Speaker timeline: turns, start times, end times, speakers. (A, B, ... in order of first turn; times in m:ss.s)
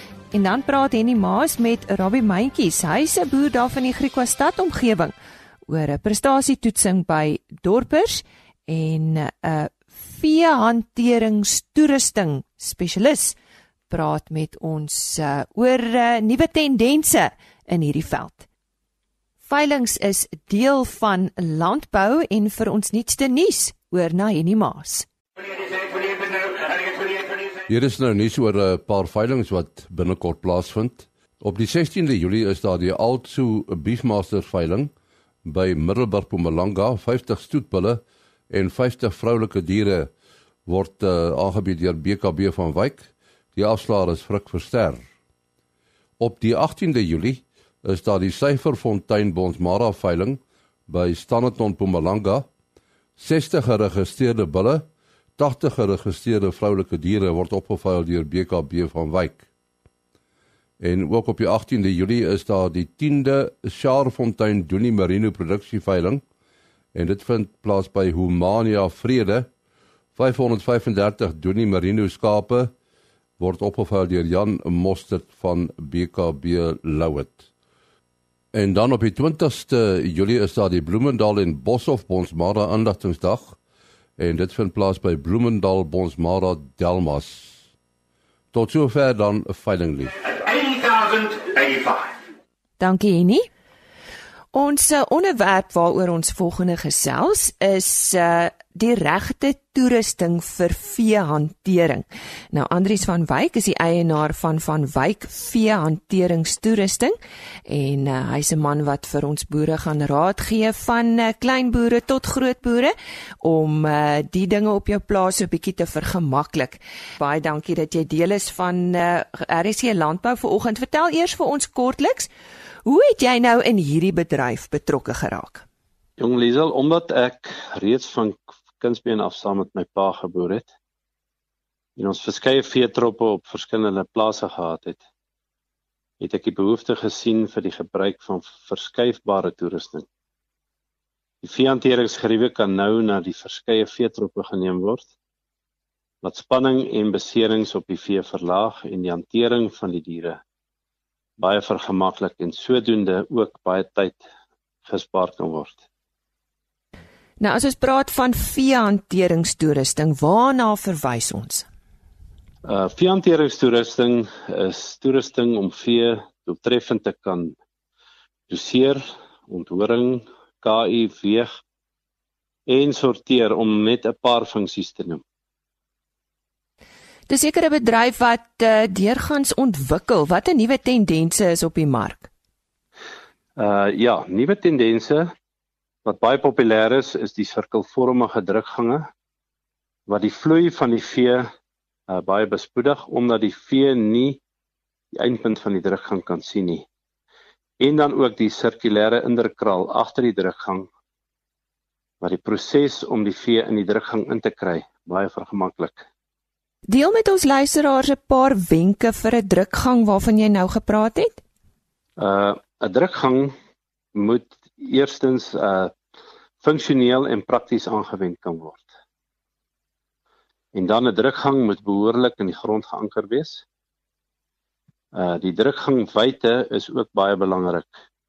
0:00.3-0:05.1 A
0:05.7-0:13.4 A
0:13.9-0:18.5 A
0:19.4-0:25.1 A
0:27.7-0:34.9 B
0:35.4-0:40.1 B
0:40.7-0:45.0 B
0:46.2-0:52.5 B
0:53.2-0:54.9 B
0:55.4-0:59.4 B
1:00.8-1:06.2 B
1:06.9-1:09.5 B
1:10.2-1:12.7 B
1:13.4-1:17.4 B
1:18.5-1:23.6 B
1:24.2-1:27.5 B
1:28.5-1:30.6 B
1:32.8-1:33.5 A
1:34.5-2:02.3 A
2:02.8-2:05.6 A
2:06.2-2:10.7 C
2:12.0-2:15.0 C
2:16.2-2:20.1 C
2:21.4-2:25.1 C
2:26.2-2:30.4 C
2:31.4-2:34.2 C
2:34.8-2:35.8 C
2:37.4-2:41.7 A
2:42.6-2:47.6 C
2:48.5-2:51.5 C
2:52.7-2:55.2 C
2:57.3-3:02.3 A
3:03.6-3:05.3 C
3:06.0-3:09.1 C
3:10.1-3:11.5 C
3:12.1-3:14.4 C
3:15.1-3:16.8 C
3:17.8-3:20.9 C
3:22.2-3:26.1 C
3:26.9-3:31.4 A
3:32.2-3:33.5 C
3:34.1-3:36.0 C
3:36.6-3:38.9 C
3:40.7-3:43.6 C
3:45.1-3:48.0 C